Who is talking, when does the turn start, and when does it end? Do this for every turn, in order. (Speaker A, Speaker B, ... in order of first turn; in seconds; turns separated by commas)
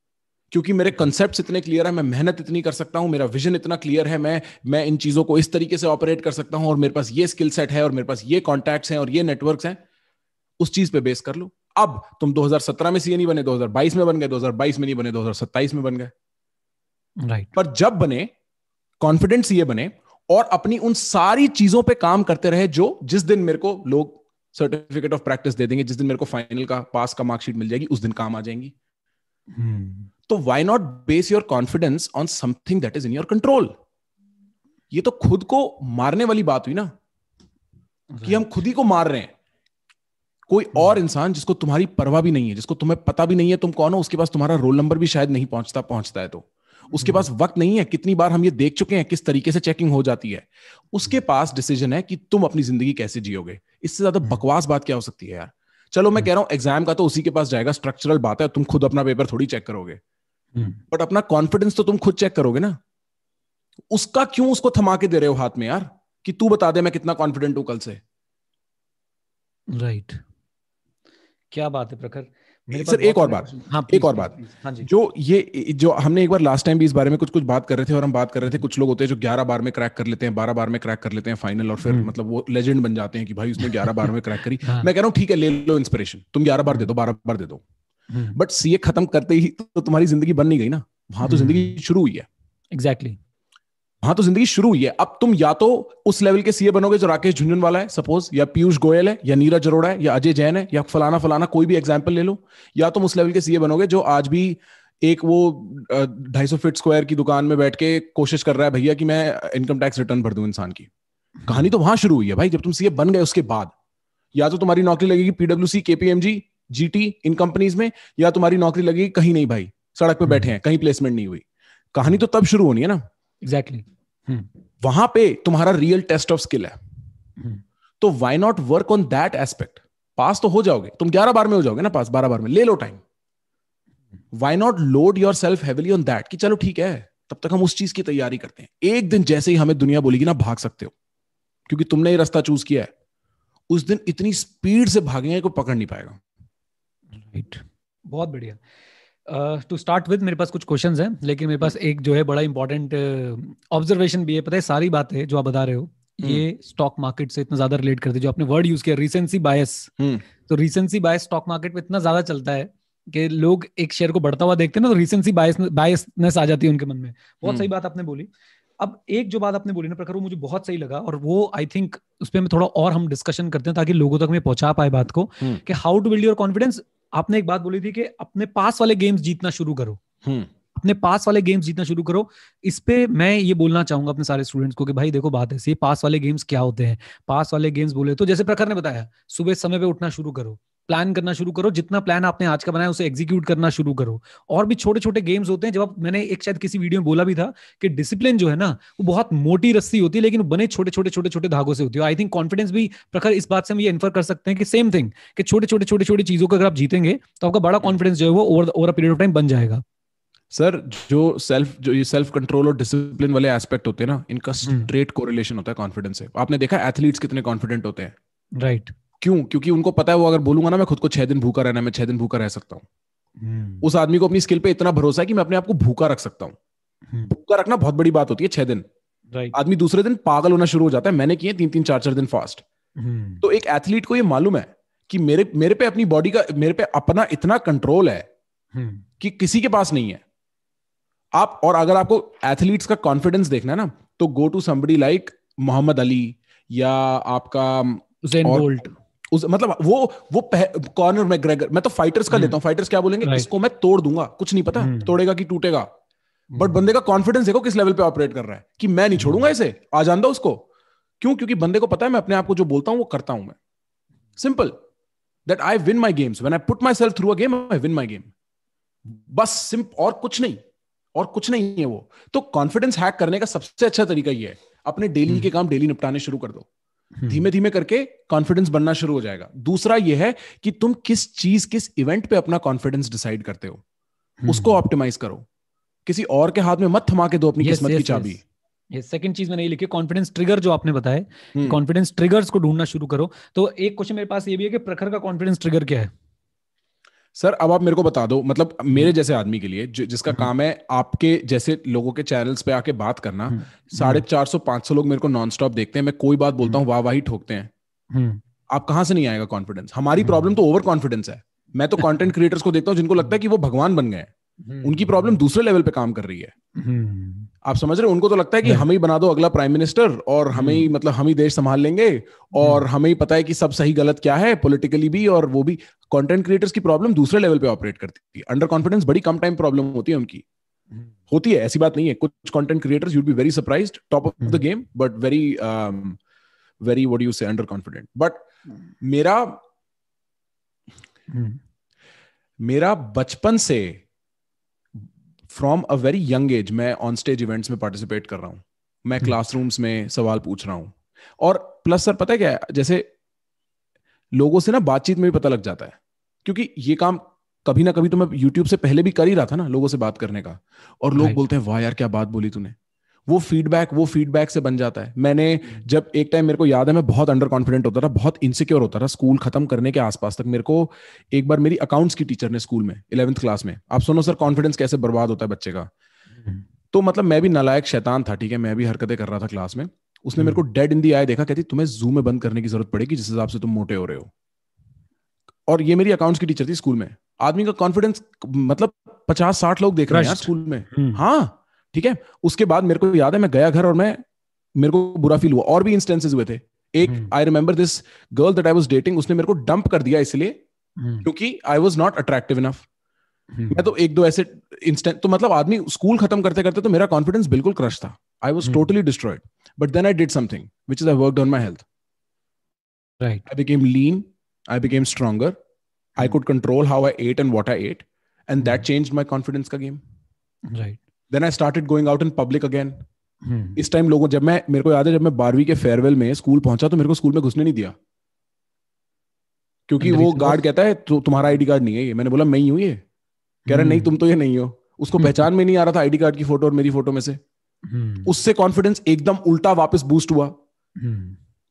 Speaker A: 0.5-9.8, Speaker A: 10.6-16.1, Speaker B: 17.2-17.5, Speaker A: 17.5-18.3, Speaker A: 19.0-28.7, Speaker B: 29.5-30.1, Speaker A: 30.3-33.7, Speaker A: 34.9-36.9, Speaker B: 38.1-38.4, Speaker A: 38.2-39.3, Speaker A: 40.5-60.0, Speaker B: 46.9-47.2, Speaker B: 60.5-60.8, Speaker A: 60.9-62.8, Speaker A: 63.9-68.0, Speaker B: 69.7-70.2, Speaker B: 71.5-74.9, Speaker A: 72.7-87.6, Speaker B: 81.8-82.1, Speaker B: 84.6-84.9, Speaker B: 88.1-88.4, Speaker A: 88.3-92.3, Speaker B: 91.2-91.7, Speaker B: 92.7-93.2, Speaker A: 94.0-110.9, Speaker A: 111.5-113.7, Speaker A: 114.3-123.0, Speaker B: 123.4-124.5, Speaker A: 124.8-126.8, Speaker A: 128.0-133.0, Speaker A: 134.3-140.9, Speaker A: 141.7-142.9, Speaker A: 143.7-146.2, Speaker B: 147.2-148.6, Speaker B: 149.3-159.9, Speaker A: 160.0-160.2, Speaker B: 160.5-180.0, Speaker A: 180.2-180.5, Speaker B: 180.7-209.8, Speaker A: 210.5-218.1, Speaker B: 214.6-214.9, Speaker B: 218.6-218.9, Speaker A: 219.2-222.8, Speaker B: 223.4-223.8, Speaker A: 223.8-226.6, Speaker A: 227.3-228.9, Speaker A: 229.5-232.6, Speaker B: 233.0-233.4, Speaker A: 233.4-238.3, Speaker B: 238.7-239.0, Speaker A: 239.2-240.2, Speaker A: 241.3-248.7, Speaker B: 248.2-248.9, Speaker A: 249.3-255.9, Speaker B: 252.3-252.6, Speaker B: 253.2-253.5, Speaker B: 254.8-255.1, Speaker A: 256.6-260.6, Speaker B: 259.2-259.5, Speaker A: 261.2-263.6, Speaker A: 264.4-264.8, Speaker A: 265.4-268.3, Speaker A: 269.1-270.6, Speaker A: 271.1-276.7, Speaker B: 277.2-277.4, Speaker A: 277.3-283.8, Speaker B: 284.4-284.7, Speaker A: 284.5-285.4, Speaker A: 286.1-288.4, Speaker B: 287.6-288.4, Speaker B: 288.9-296.1, Speaker A: 297.3-307.7, Speaker B: 303.5-304.2, Speaker B: 308.1-308.4, Speaker A: 308.7-314.3, Speaker B: 310.2-310.6, Speaker B: 314.6-315.4, Speaker A: 314.8-316.5, Speaker B: 316.8-317.5, Speaker A: 317.6-330.4, Speaker B: 320.5-320.9, Speaker B: 322.6-322.8, Speaker A: 331.3-336.2, Speaker A: 336.8-338.4, Speaker A: 339.0-339.6, Speaker B: 341.3-341.6, Speaker A: 342.6-344.0, Speaker A: 345.0-353.1, Speaker A: 354.3-362.8, Speaker B: 361.1-361.4, Speaker A: 363.3-375.9, Speaker A: 376.9-384.3, Speaker A: 385.7-394.2, Speaker B: 390.1-391.2, Speaker A: 394.8-400.6, Speaker B: 397.0-397.3, Speaker B: 401.0-401.3, Speaker A: 401.2-402.9, Speaker B: 403.5-403.9, Speaker A: 403.7-411.9, Speaker B: 413.2-413.4, Speaker A: 413.5-415.6, Speaker A: 416.1-420.0, Speaker B: 420.7-421.0, Speaker A: 421.3-423.0, Speaker B: 423.4-423.8, Speaker A: 423.8-427.9, Speaker A: 429.9-433.0, Speaker B: 430.0-430.6, Speaker B: 433.7-434.1, Speaker A: 433.7-437.4, Speaker B: 435.2-435.4, Speaker B: 437.9-438.3, Speaker A: 438.2-440.6, Speaker B: 441.0-441.4